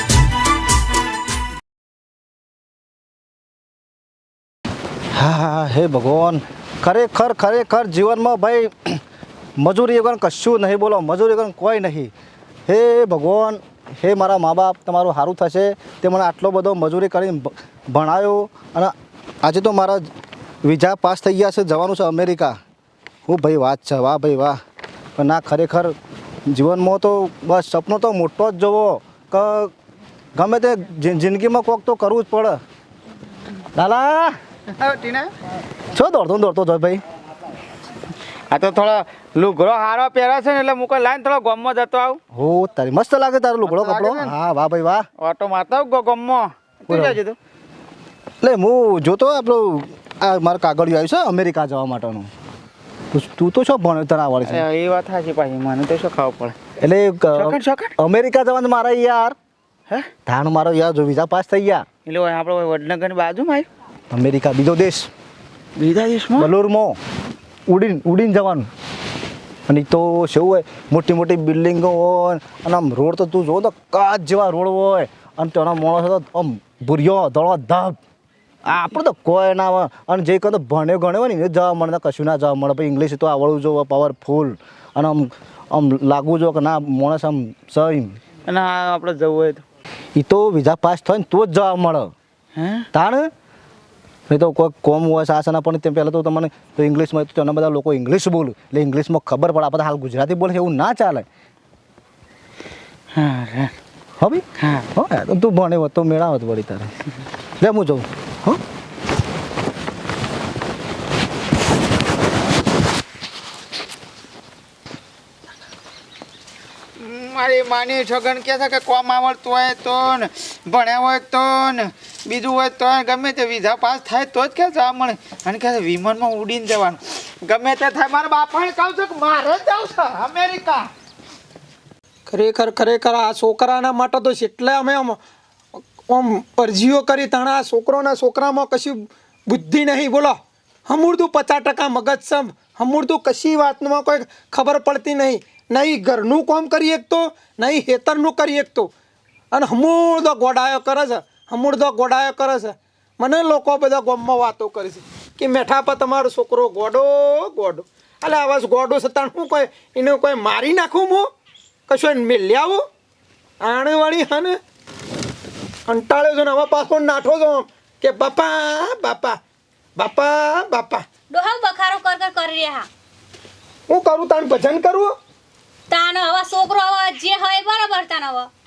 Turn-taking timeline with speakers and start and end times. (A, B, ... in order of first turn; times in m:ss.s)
0:05.1-0:09.0 A
0:09.6-0:12.1 A
0:12.7-0:20.0 A
0:20.6-0:22.6 A
0:23.2-0:24.6 A
0:25.2-0:25.9 A
0:26.5-0:29.7 A
0:30.4-0:32.6 A
0:33.7-0:34.4 A
0:34.8-0:35.3 B
0:35.9-0:37.0 A
0:38.5-0:42.2 B
0:42.3-0:45.1 A
0:43.6-0:44.3 B
0:45.2-0:47.4 B
0:46.9-0:47.2 A
0:48.4-0:52.3 A
0:53.1-0:54.7 A
0:54.4-0:56.6 B
0:56.8-0:59.3 A
0:57.3-0:57.9 B
1:00.2-1:01.8 A
1:02.0-1:03.7 B
1:04.1-1:05.1 A
1:05.8-1:06.5 B
1:06.4-1:07.0 A
1:07.7-1:08.7 A
1:09.7-1:18.0 A
1:18.7-1:28.2 A
1:28.5-1:29.6 B
1:30.2-1:32.1 A
1:32.6-1:32.9 B
1:32.9-1:33.3 A
1:34.3-1:41.2 A
1:43.2-1:43.7 B
1:44.2-1:46.9 A
1:44.6-1:44.8 B
1:47.6-1:48.6 A
1:57.0-2:10.9 B
2:12.3-2:15.2 C
2:15.8-2:20.4 C
2:20.9-2:28.9 C
2:29.5-2:41.3 C
2:41.9-2:42.8 C
2:43.6-2:44.6 C
2:45.9-2:49.4 C
2:50.0-2:51.0 C
2:51.3-2:52.9 D
2:53.9-2:55.1 C
2:55.9-2:58.5 D